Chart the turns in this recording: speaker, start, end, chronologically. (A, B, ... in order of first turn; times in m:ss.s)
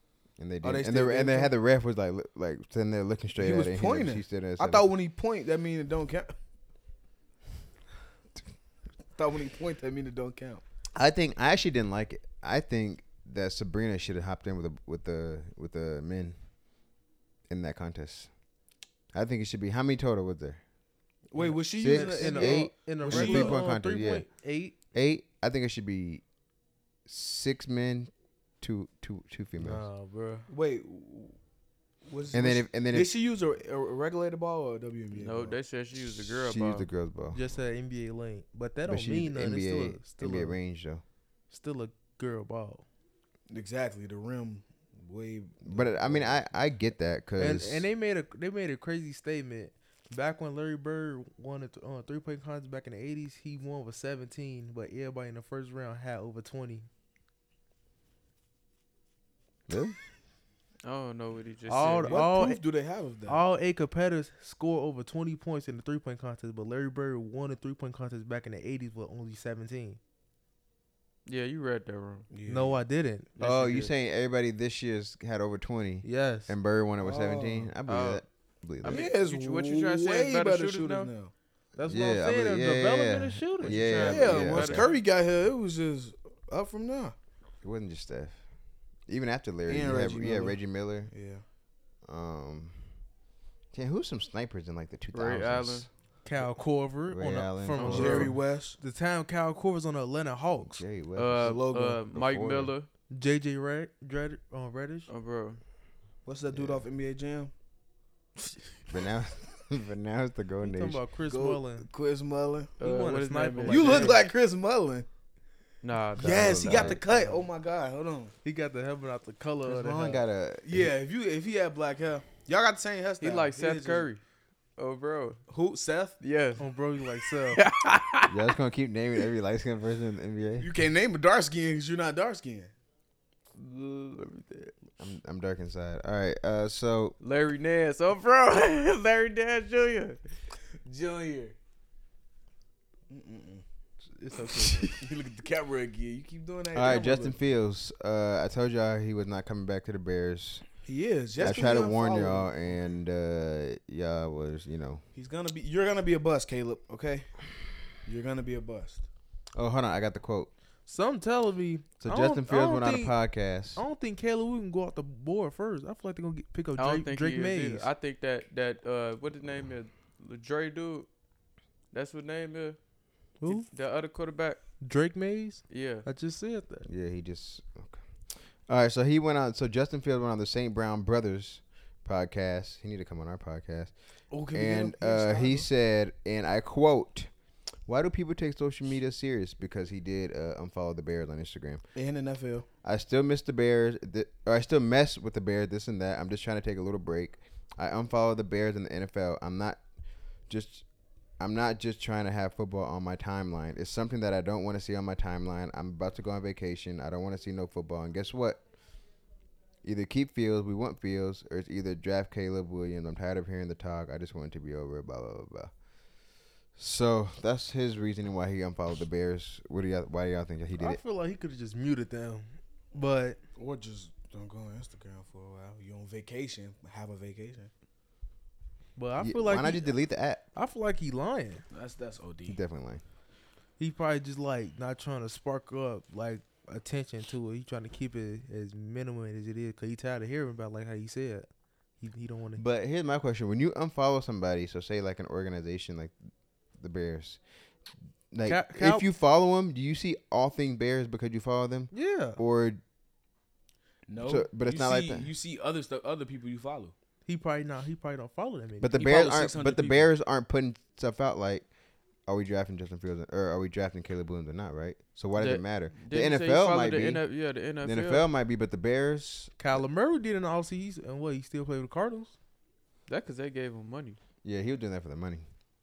0:00.4-0:04.9 A
0:00.6-0:01.4 B
0:03.4-0:06.3 B
0:09.1-0:10.6 B
0:10.9-0:16.4 A
0:17.5-0:18.3 A
0:19.1-0:20.6 A
0:21.3-0:23.6 B
0:21.4-0:24.8 C
0:21.7-0:24.3 A
0:24.9-0:26.2 A
0:27.0-0:29.8 A
0:29.6-0:30.5 C
0:30.5-0:31.4 B
0:32.0-0:35.6 B
0:32.3-0:33.1 A
0:35.1-0:36.9 D
0:36.0-0:37.4 A
0:37.3-0:40.6 C
0:38.8-0:41.0 A
0:41.5-0:42.8 C
0:43.5-0:46.4 B
0:45.6-0:47.9 A
0:47.4-0:56.9 C
0:59.7-1:00.0 A
1:00.8-1:02.2 D
1:01.7-1:02.6 C
1:02.0-1:03.4 B
1:03.3-1:10.0 C
1:11.2-1:12.3 D
1:12.3-1:12.8 B
1:12.5-1:13.9 C
1:13.4-1:19.0 A
1:16.0-1:16.5 C
1:17.0-1:17.7 B
1:17.8-1:18.2 D
1:18.8-1:21.1 D
1:18.8-1:21.3 B
1:21.8-1:24.2 C
1:21.8-1:24.9 A
1:23.6-1:25.0 D
1:24.0-1:27.1 B
1:27.6-1:28.4 A
1:29.1-1:31.1 A
1:29.7-1:31.4 B
1:32.0-1:32.9 A
1:33.7-1:35.9 A
1:35.1-1:35.9 D
1:36.2-1:40.8 C
1:37.1-1:38.3 A
1:37.7-1:38.3 D
1:37.8-1:38.8 B
1:40.6-1:42.7 A
1:41.2-1:42.9 D
1:41.4-1:42.0 B
1:43.1-1:45.1 C
1:45.1-1:45.6 D
1:46.2-1:47.5 B
1:46.5-1:46.8 A
1:48.9-1:51.0 A
1:50.6-1:51.9 C
1:51.3-1:52.8 B
1:52.8-1:54.2 D
1:52.8-1:54.2 C
1:53.6-1:55.1 B
1:55.8-1:57.0 D
1:56.2-1:58.3 B
1:56.2-1:57.0 A
1:57.1-1:57.4 C
1:58.4-2:00.2 C
1:59.6-2:00.9 A
2:00.6-2:04.1 B
2:03.2-2:04.2 D
2:04.8-2:05.4 D
2:05.5-2:06.2 B
2:06.2-2:06.6 D
2:06.6-2:07.6 C
2:07.5-2:08.4 D
2:08.3-2:10.7 A
2:10.6-2:12.7 B
2:13.5-2:14.7 D
2:15.0-2:17.2 A
2:17.2-2:20.2 D
2:20.8-2:21.6 B
2:23.1-2:23.6 B
2:24.1-2:24.9 C
2:24.8-2:27.4 B
2:26.7-2:30.6 A
2:30.8-2:32.5 B
2:31.4-2:35.0 A
2:35.1-2:37.4 B
2:38.0-2:39.0 B
2:39.5-2:40.5 A
2:40.9-2:43.2 C
2:42.0-2:43.8 A
2:43.7-2:47.9 C
2:46.8-2:51.1 D
2:51.9-2:52.8 D
2:53.4-2:53.7 C
2:53.4-2:54.6 D
2:54.8-2:56.9 C
2:55.7-2:56.0 D
2:56.8-3:03.9 A
3:04.3-3:05.7 B
3:04.4-3:07.3 A
3:07.8-3:11.8 A
3:11.9-3:12.7 B
3:12.8-3:19.8 A
3:20.5-3:20.8 A
3:21.4-3:28.6 A
3:29.8-3:35.7 A
3:36.8-3:41.0 A
3:40.8-3:43.4 C
3:43.6-3:47.7 B
3:49.0-3:50.0 C
3:49.2-3:50.4 A
3:50.5-3:51.6 C
3:51.7-3:52.6 B
3:52.5-3:53.0 A
3:53.8-4:01.5 C
4:02.0-4:02.6 C
4:02.6-4:06.1 A
4:06.8-4:07.4 A
4:08.3-4:12.8 A
4:08.4-4:09.0 C
4:11.9-4:12.4 C
4:14.1-4:16.9 B
4:14.2-4:15.3 A
4:17.2-4:19.0 C
4:18.8-4:21.7 A
4:19.0-4:20.1 B
4:22.3-4:27.2 A
4:25.4-4:28.2 D
4:27.8-4:29.8 A
4:29.6-4:32.3 C
4:33.1-4:34.2 D
4:34.4-4:35.5 A